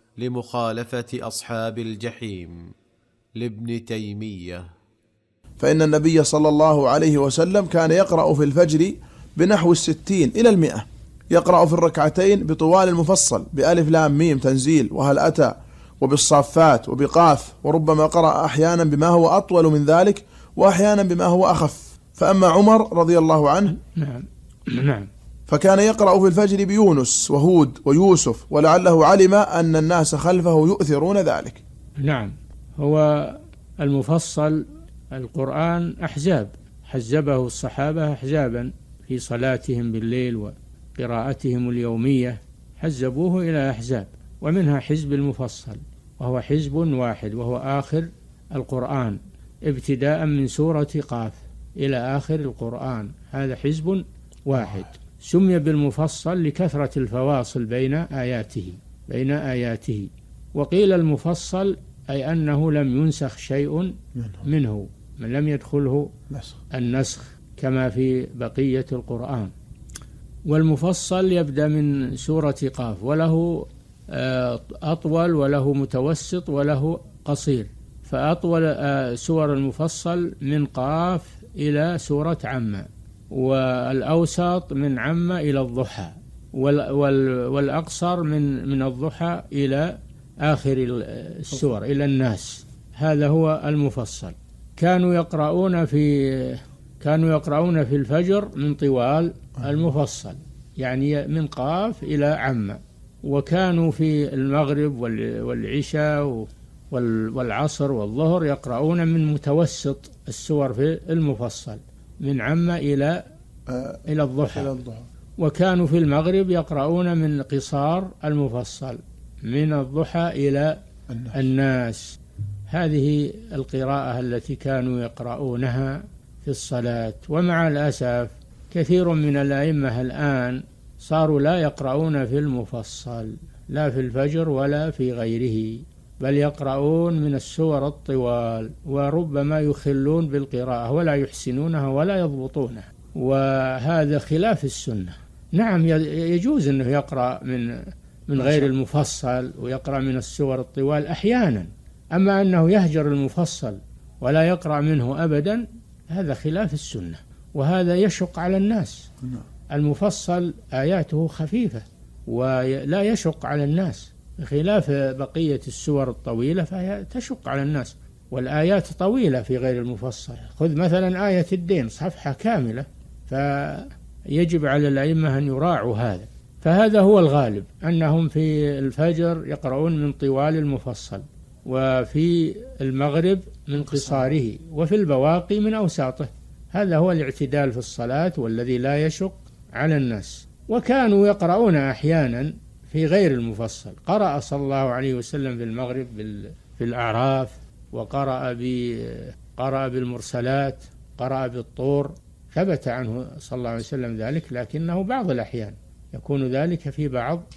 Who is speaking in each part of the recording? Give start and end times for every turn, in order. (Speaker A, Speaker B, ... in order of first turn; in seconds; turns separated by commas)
Speaker A: 0.2-2.6, Speaker A: 3.4-4.6, Speaker B: 5.6-23.7, Speaker C: 23.8-25.1, Speaker B: 25.5-31.6, Speaker C: 32.0-66.1, Speaker B: 64.2-64.4, Speaker B: 66.3-66.5, Speaker C: 66.7-69.5, Speaker C: 70.5-113.2, Speaker B: 113.7-115.0, Speaker C: 114.1-114.7, Speaker C: 115.4-120.8, Speaker B: 121.1-121.3, Speaker C: 121.3-122.2, Speaker C: 122.7-159.1, Speaker C: 159.7-207.4